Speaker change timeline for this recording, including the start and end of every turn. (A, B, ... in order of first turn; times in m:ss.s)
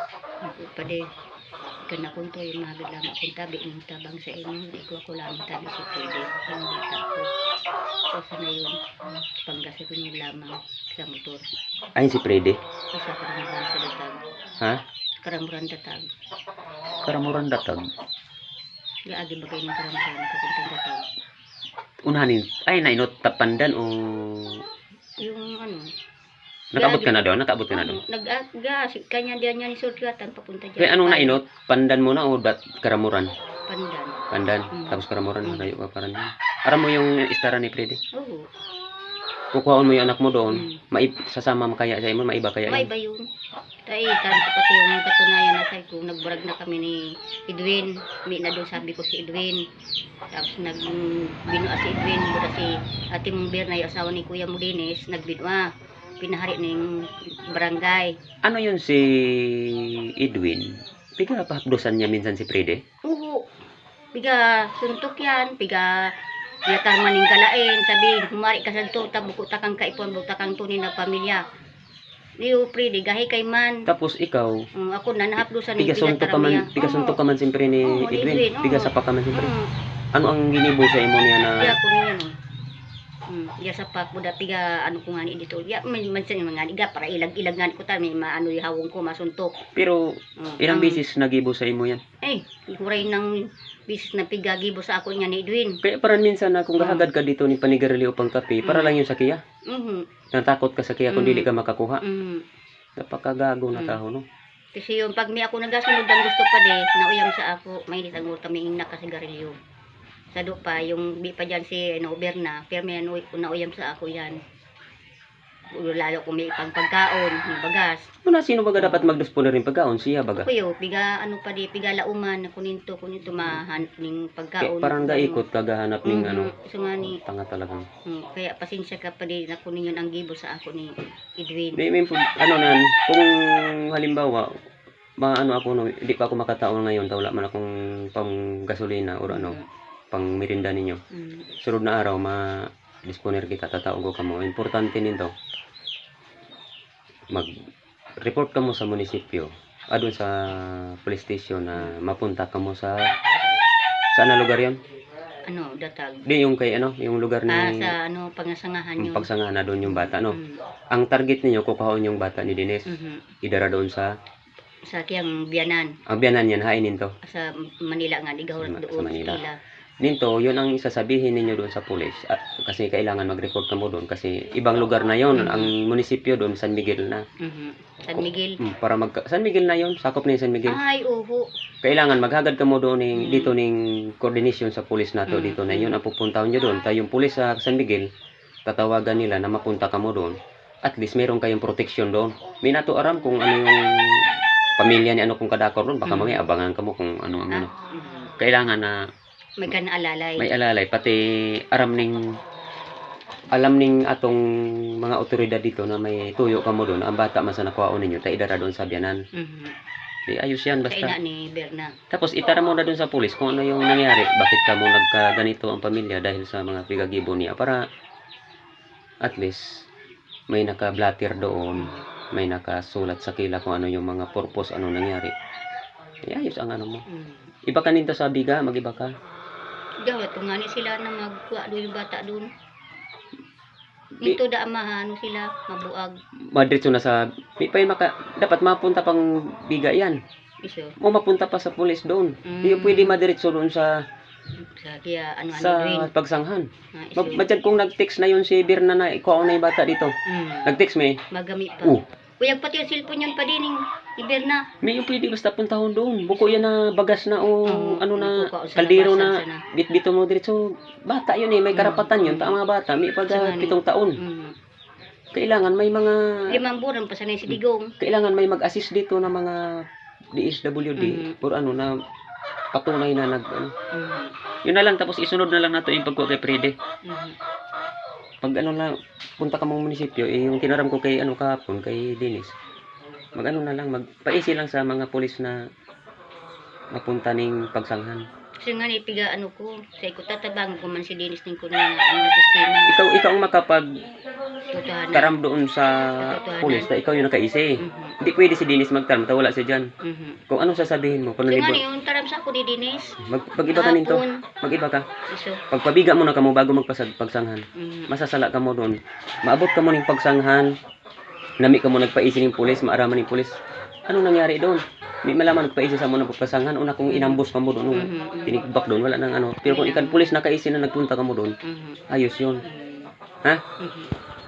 0:00.4-0:01.1 A
0:01.9-0:07.3 A
0:08.1-0:08.8 A
0:09.5-0:11.4 A
0:12.0-0:12.6 B
0:12.9-0:14.2 A
0:15.2-0:16.1 A
0:17.0-0:17.8 B
0:19.1-0:21.0 A
0:22.1-0:24.6 B
0:25.2-0:25.9 A
0:26.7-0:28.0 B
0:26.8-0:27.2 A
0:27.7-0:31.4 A
0:30.8-0:33.3 B
0:33.7-0:34.2 A
0:34.3-0:38.0 B
0:34.7-0:35.7 A
0:38.1-0:38.4 A
0:39.5-0:42.9 B
0:40.5-0:40.8 A
0:42.7-0:43.3 A
0:43.8-0:49.6 A
0:50.3-0:55.7 A
0:56.2-0:58.1 A
0:58.4-1:02.8 B
1:03.0-1:03.5 A
1:04.1-1:05.9 A
1:06.7-1:11.4 A
1:12.4-1:13.8 A
1:13.9-1:14.6 B
1:14.8-1:17.2 A
1:15.8-1:19.5 B
1:17.8-1:19.7 A
1:20.1-1:21.7 B
1:21.6-1:22.3 A
1:23.3-1:29.5 A
1:29.7-1:30.0 B
1:30.4-1:31.0 A
1:30.6-1:32.0 B
1:32.2-1:35.8 A
1:35.8-1:39.4 B
1:36.8-1:37.1 A
1:38.6-1:39.0 A
1:39.7-1:40.0 A
1:40.3-1:42.0 B
1:41.1-1:41.5 A
1:42.0-1:42.4 A
1:43.0-1:44.2 B
1:43.7-1:44.0 A
1:44.8-1:49.6 A
1:50.3-1:54.4 A
1:55.7-1:58.1 A
1:58.2-2:00.5 B
1:58.8-1:59.1 A
2:00.4-2:05.4 A
2:04.6-2:06.5 B
2:06.0-2:07.2 A
2:07.1-2:07.9 B
2:08.1-2:11.8 A
2:11.8-2:14.5 B
2:15.2-2:19.6 B
2:19.3-2:19.7 A
2:20.1-2:21.0 B
2:21.1-2:21.5 A
2:21.6-2:22.4 B
2:23.1-2:25.3 B
2:28.2-2:33.1 B
2:34.1-2:34.8 B
2:35.5-2:36.2 A
2:36.3-2:37.9 B
2:37.5-2:39.3 A
2:39.0-2:40.4 B
2:39.8-2:40.6 A
2:40.9-2:42.9 B
2:42.9-2:43.3 A
2:43.4-2:44.1 B
2:44.9-2:45.9 A
2:46.1-2:47.1 B
2:47.2-2:49.6 A
2:48.6-2:49.4 B
2:50.0-2:57.2 B
2:55.3-2:55.7 A
2:57.4-2:58.6 A
2:58.2-3:00.8 B
3:00.7-3:01.5 A
3:01.8-3:08.1 B
3:03.2-3:03.6 A
3:05.3-3:06.0 A
3:08.7-3:14.2 B
3:14.8-3:17.7 B
3:16.0-3:16.4 A
3:17.5-3:18.3 A
3:18.4-3:19.0 B
3:19.6-3:20.5 A
3:20.4-3:22.2 B
3:23.5-3:24.4 B
3:25.0-3:29.2 B
3:29.3-3:29.8 A
3:30.3-3:31.1 B
3:30.9-3:31.9 A
3:32.1-3:37.8 B
3:39.2-3:39.7 B
3:40.5-3:45.3 B
3:41.8-3:42.1 A
3:46.3-3:47.0 B
3:47.1-3:47.5 A
3:47.7-3:49.1 B
3:50.0-3:52.5 A
3:54.2-3:56.1 A
3:56.5-4:00.2 B
4:00.6-4:01.0 A
4:01.0-4:03.9 B
4:02.5-4:03.2 A
4:04.6-4:06.1 A
4:05.5-4:10.1 B
4:06.9-4:07.5 A
4:10.3-4:10.7 A
4:10.7-4:11.2 B
4:11.3-4:14.6 A
4:14.8-4:24.2 B
4:16.3-4:16.6 A
4:17.7-4:19.6 A
4:21.7-4:22.6 A
4:23.3-4:24.5 A
4:25.3-4:26.2 B
4:26.5-4:27.9 A
4:27.5-4:29.6 B
4:30.3-4:31.9 B
4:31.0-4:31.4 A
4:32.7-4:33.7 B
4:33.9-4:34.3 A
4:34.6-4:36.8 B
4:37.0-4:37.4 A
4:38.4-4:42.5 B
4:43.4-4:45.6 B
4:46.9-4:48.2 B
4:48.6-4:52.9 A
4:52.9-4:53.8 B
4:54.7-4:55.4 A
4:55.1-4:59.9 B
4:56.0-4:56.9 A
4:57.8-4:58.2 A
5:00.0-5:00.4 A
5:00.5-5:01.8 B
5:01.5-5:04.4 A
5:03.2-5:05.0 B
5:05.3-5:05.6 A
5:05.7-5:10.7 B
5:07.8-5:08.1 A
5:11.6-5:13.5 B
5:14.1-5:21.5 B
5:17.1-5:17.4 A
5:17.9-5:18.6 A
5:19.6-5:20.3 A
5:21.6-5:22.0 A
5:22.1-5:22.6 B
5:22.6-5:23.1 A
5:23.8-5:24.1 A